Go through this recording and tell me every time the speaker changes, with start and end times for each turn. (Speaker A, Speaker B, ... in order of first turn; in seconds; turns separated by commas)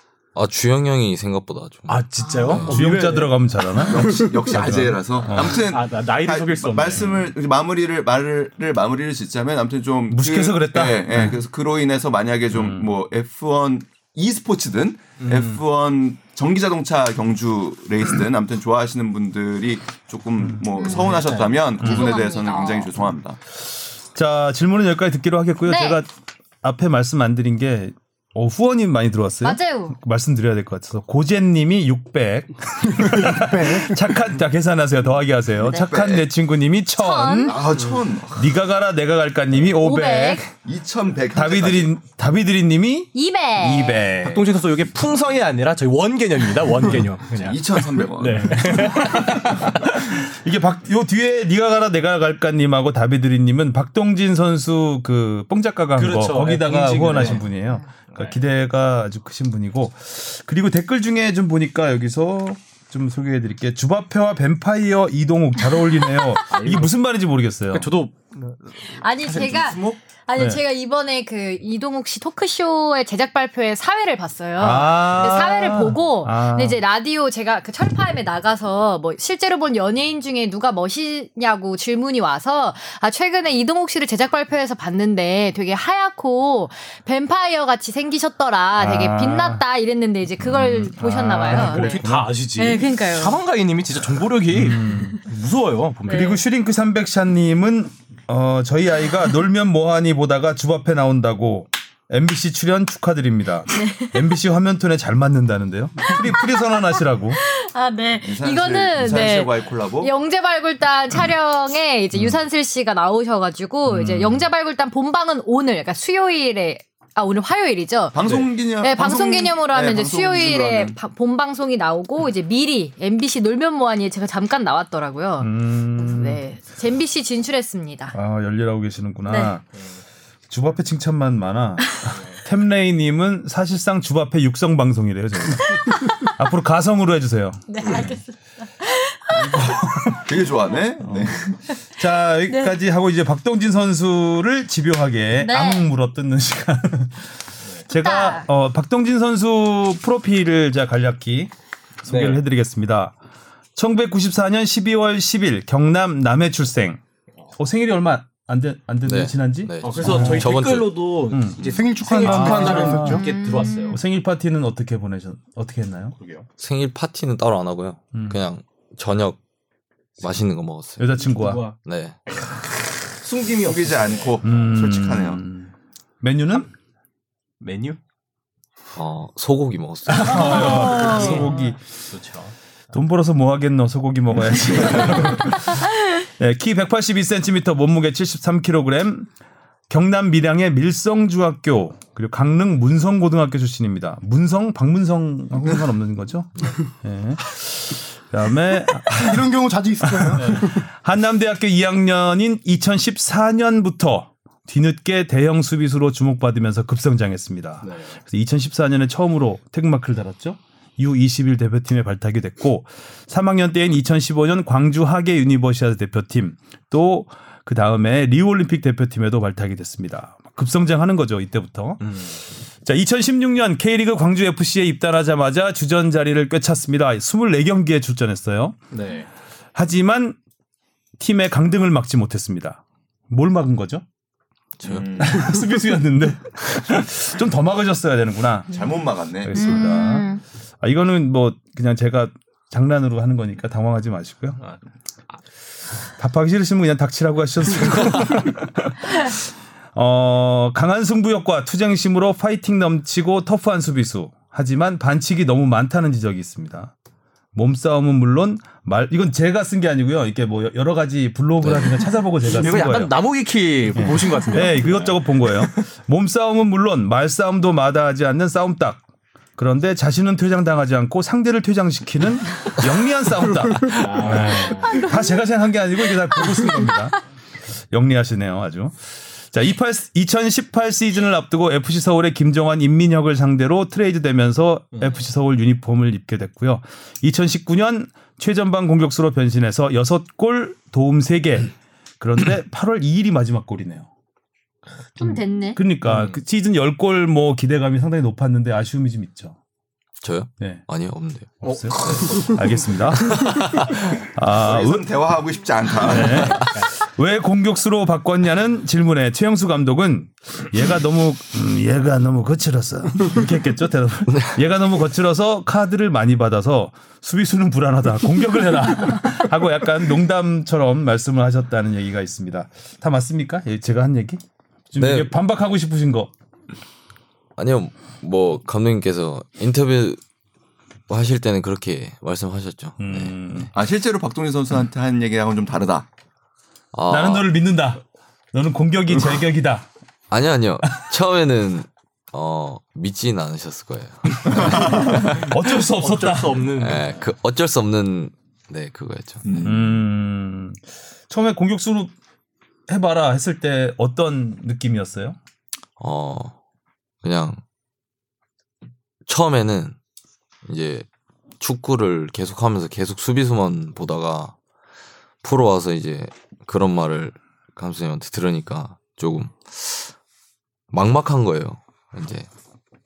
Speaker A: 0.3-2.8, Speaker B: 1.9-3.3, Speaker C: 2.2-2.7, Speaker D: 2.6-5.6, Speaker E: 3.8-23.4, Speaker B: 5.3-7.3, Speaker D: 10.1-11.4, Speaker D: 12.5-12.9, Speaker B: 15.2-15.6, Speaker D: 20.4-20.6, Speaker C: 20.7-21.2, Speaker B: 20.8-21.7, Speaker D: 21.8-22.1, Speaker C: 21.8-22.9, Speaker D: 23.6-26.1, Speaker C: 25.6-26.0, Speaker D: 26.6-37.7, Speaker C: 29.4-29.9, Speaker F: 32.9-34.0, Speaker E: 35.7-36.3, Speaker C: 37.0-37.5, Speaker E: 37.4-38.5, Speaker D: 38.4-40.5, Speaker C: 39.8-40.4, Speaker E: 40.6-41.9, Speaker D: 41.3-44.4, Speaker C: 43.1-44.1, Speaker B: 44.2-49.9, Speaker E: 47.3-48.9, Speaker D: 48.6-67.9, Speaker B: 56.0-58.4, Speaker C: 66.0-66.4, Speaker B: 66.5-66.9, Speaker B: 67.7-70.0, Speaker C: 68.9-92.0, Speaker D: 74.6-76.8, Speaker D: 88.8-89.6, Speaker D: 90.4-92.3, Speaker B: 91.5-96.4, Speaker C: 92.6-93.4, Speaker D: 94.5-95.2, Speaker D: 96.0-107.4, Speaker C: 96.1-96.4, Speaker C: 103.7-104.2, Speaker C: 106.1-106.8, Speaker C: 107.3-118.2, Speaker E: 108.2-110.1, Speaker D: 113.8-114.5, Speaker E: 118.1-121.0, Speaker C: 118.8-128.1, Speaker D: 125.4-126.4, Speaker D: 128.1-129.6, Speaker C: 129.3-129.5, Speaker D: 130.5-138.0, Speaker B: 132.1-132.4, Speaker C: 135.7-136.2, Speaker C: 137.7-139.7, Speaker D: 139.3-140.3, Speaker E: 140.2-141.4, Speaker D: 141.0-147.3, Speaker C: 142.5-142.7, Speaker C: 145.3-145.8, Speaker D: 147.9-151.5, Speaker C: 147.9-148.5, Speaker D: 152.0-153.1, Speaker B: 152.1-152.4, Speaker D: 153.8-157.0, Speaker D: 157.6-160.5, Speaker A: 159.0-161.1, Speaker B: 159.8-164.0, Speaker D: 161.3-166.2, Speaker F: 161.6-163.2, Speaker C: 163.0-164.0, Speaker B: 166.2-166.5, Speaker A: 166.6-169.4, Speaker D: 168.1-168.4, Speaker A: 170.2-171.2, Speaker D: 171.0-171.7, Speaker B: 171.2-171.8, Speaker A: 171.7-172.2, Speaker B: 172.3-174.4, Speaker E: 173.6-175.4, Speaker D: 174.4-176.7, Speaker B: 177.6-178.0, Speaker A: 178.9-180.9, Speaker D: 180.1-181.8, Speaker C: 180.3-181.6, Speaker B: 180.4-181.6, Speaker B: 182.1-182.5, Speaker D: 182.9-189.3, Speaker D: 189.9-199.4, Speaker F: 199.1-200.8, Speaker D: 200.1-222.3, Speaker B: 200.3-200.6, Speaker B: 207.8-208.2, Speaker B: 222.0-222.4, Speaker D: 222.8-228.8, Speaker B: 228.9-229.3, Speaker D: 229.7-230.4, Speaker D: 231.2-234.0, Speaker A: 234.8-235.2, Speaker E: 234.8-235.6, Speaker D: 235.2-238.8, Speaker E: 238.7-239.8, Speaker D: 239.4-240.3, Speaker C: 239.5-240.4, Speaker D: 240.8-244.6, Speaker D: 246.2-249.4, Speaker D: 249.9-256.9, Speaker D: 257.5-263.1, Speaker A: 261.6-261.9, Speaker B: 262.4-265.9, Speaker D: 263.9-269.0, Speaker D: 269.6-277.2, Speaker B: 273.9-275.1, Speaker D: 277.9-294.1, Speaker B: 284.9-285.2, Speaker C: 295.2-295.8, Speaker D: 295.2-299.6, Speaker B: 296.1-296.4, Speaker A: 300.2-302.6, Speaker D: 300.6-300.8, Speaker D: 301.6-305.1, Speaker B: 301.6-302.7, Speaker A: 303.2-304.1, Speaker E: 304.5-306.7, Speaker D: 306.0-326.3, Speaker B: 306.5-306.9, Speaker A: 314.3-314.6, Speaker A: 325.0-325.3, Speaker A: 327.6-330.2, Speaker A: 331.1-333.4, Speaker D: 333.0-333.7, Speaker E: 333.7-336.1, Speaker A: 336.9-337.5, Speaker D: 337.1-338.0, Speaker D: 338.5-339.9, Speaker A: 340.3-345.5, Speaker D: 344.5-346.6, Speaker B: 345.2-347.1, Speaker A: 346.8-349.7, Speaker E: 349.4-349.9, Speaker D: 349.6-352.1, Speaker D: 352.9-355.4, Speaker A: 356.0-356.6, Speaker A: 357.2-357.6, Speaker A: 359.3-359.9, Speaker A: 360.6-361.1, Speaker A: 361.6-364.6, Speaker A: 365.4-370.1, Speaker A: 370.9-372.5